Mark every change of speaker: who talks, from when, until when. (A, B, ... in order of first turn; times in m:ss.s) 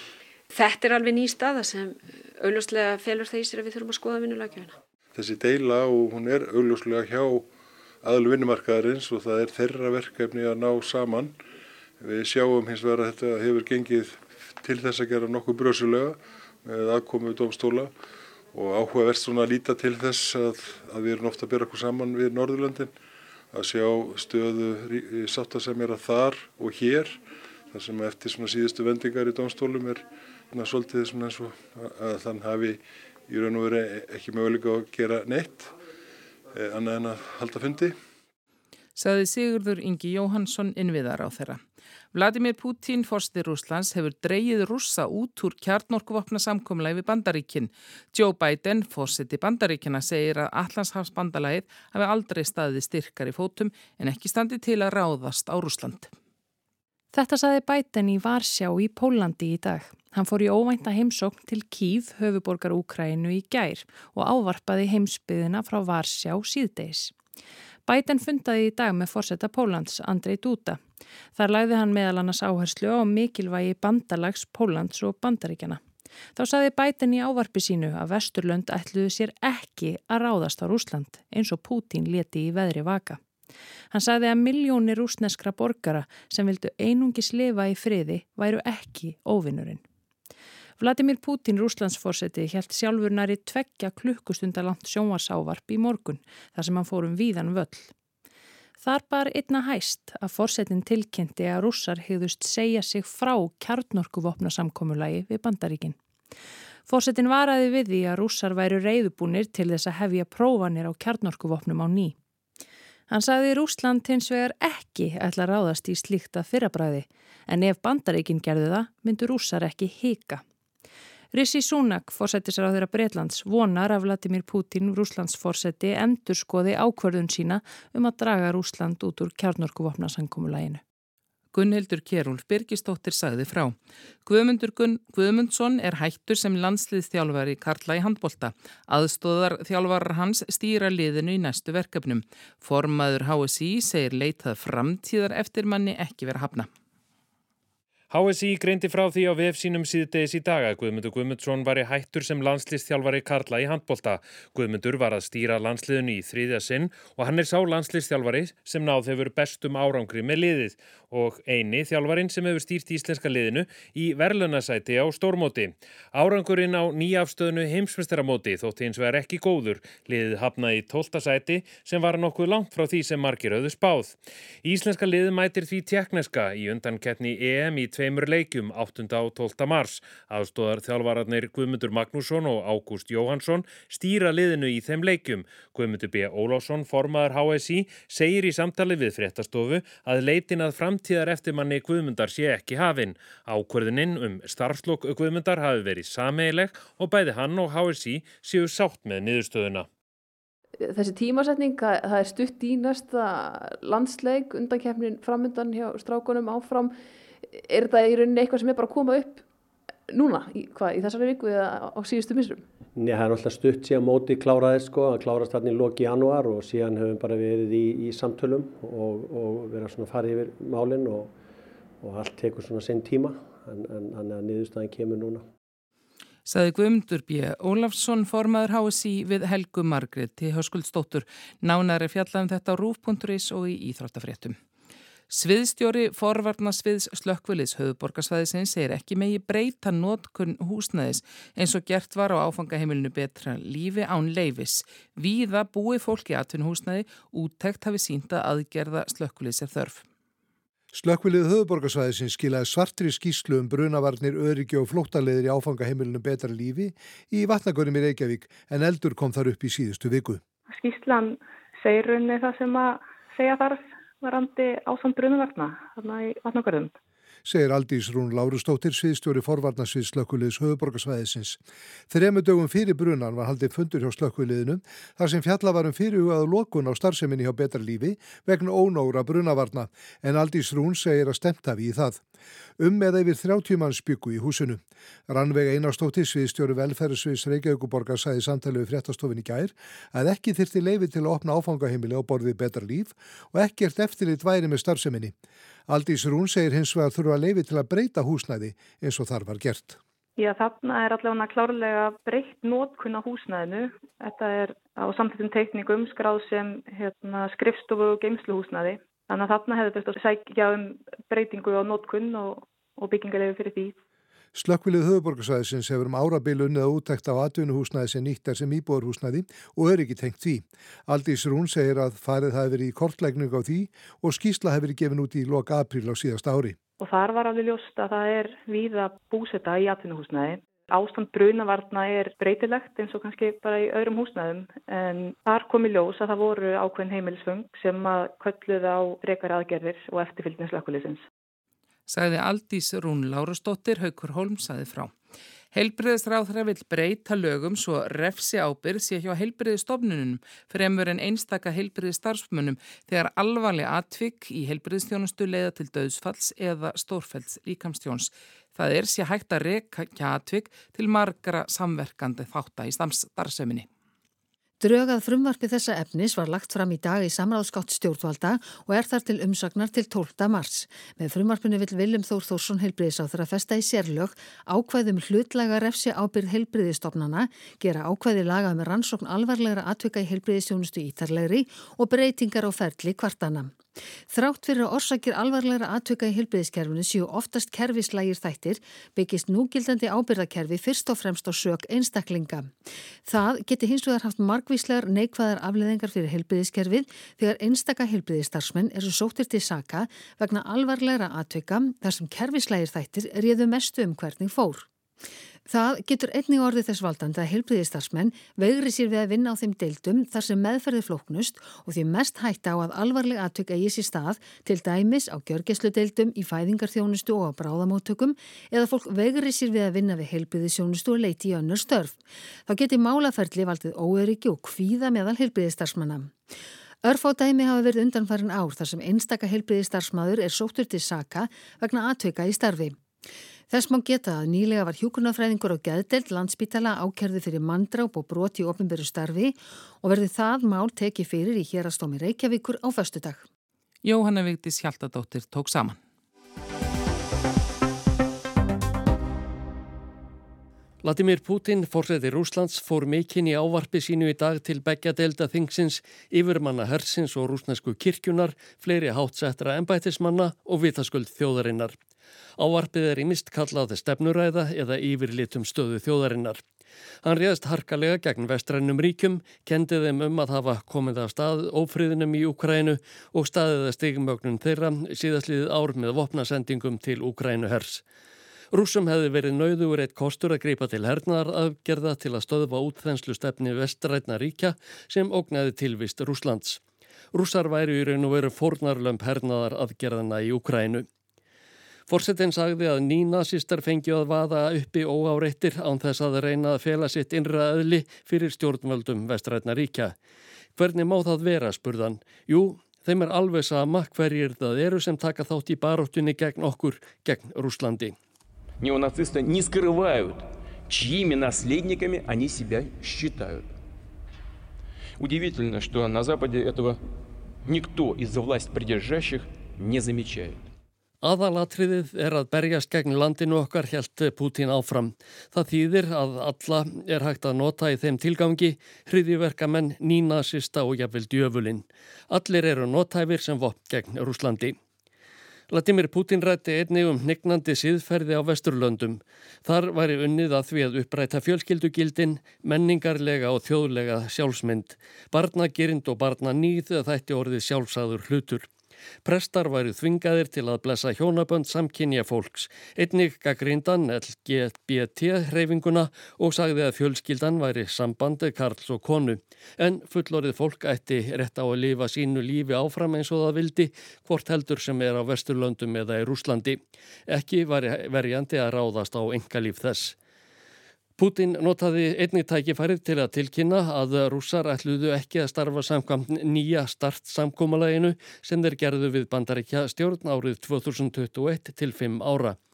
0:00.5-0:04.8 A
0:05.1-0:07.5 B
0:08.0-0:11.3 B
0:12.0-0:17.9 B
0:18.5-0:22.9 B
0:23.5-0:35.7 B
0:36.5-0:38.0 B
0:39.0-0:41.6 C
0:42.1-0:56.1 C
0:57.1-1:07.1 D
1:07.8-1:10.8 D
1:11.3-1:15.8 D
1:16.3-1:23.2 D
1:23.9-1:29.8 D
1:30.8-1:37.9 D
1:38.8-1:46.0 D
1:46.9-1:52.2 D
1:53.1-2:00.4 D
2:01.3-2:10.8 D
2:11.5-2:26.7 C
2:28.1-3:19.9 E
3:20.8-3:26.9 F
3:27.4-3:29.4 F
3:30.1-3:32.6 F
3:32.9-3:41.3 G
3:42.0-3:45.5 G
3:46.5-3:54.6 C
3:55.3-4:10.0 C
4:10.9-4:20.4 H
4:20.7-4:26.9 I
4:27.4-4:31.6 H
4:32.1-4:42.2 H
4:42.8-4:55.3 H
4:55.9-5:00.0 H
5:00.4-5:14.0 I
5:14.5-5:26.8 H
5:27.0-5:41.2 I
5:42.1-5:45.1 C
5:45.7-6:03.9 C
6:04.8-6:23.7 J
6:24.3-6:32.7 J
6:33.2-6:44.9 J
6:45.7-7:06.3 J
7:07.0-7:13.0 J
7:13.7-7:23.4 J
7:24.0-7:26.0 C
7:31.0-7:41.9 K
7:42.6-7:46.6 K
7:47.2-7:58.0 K
7:58.7-8:06.8 K
8:07.3-8:11.0 K
8:12.1-8:20.1 K
8:20.7-8:28.1 K
8:28.8-8:33.6 L
8:35.2-8:37.0 L
8:37.6-8:40.6 L
8:41.2-8:54.8 K
8:55.7-9:08.7 K
9:09.2-9:30.1 K
9:31.2-9:42.6 K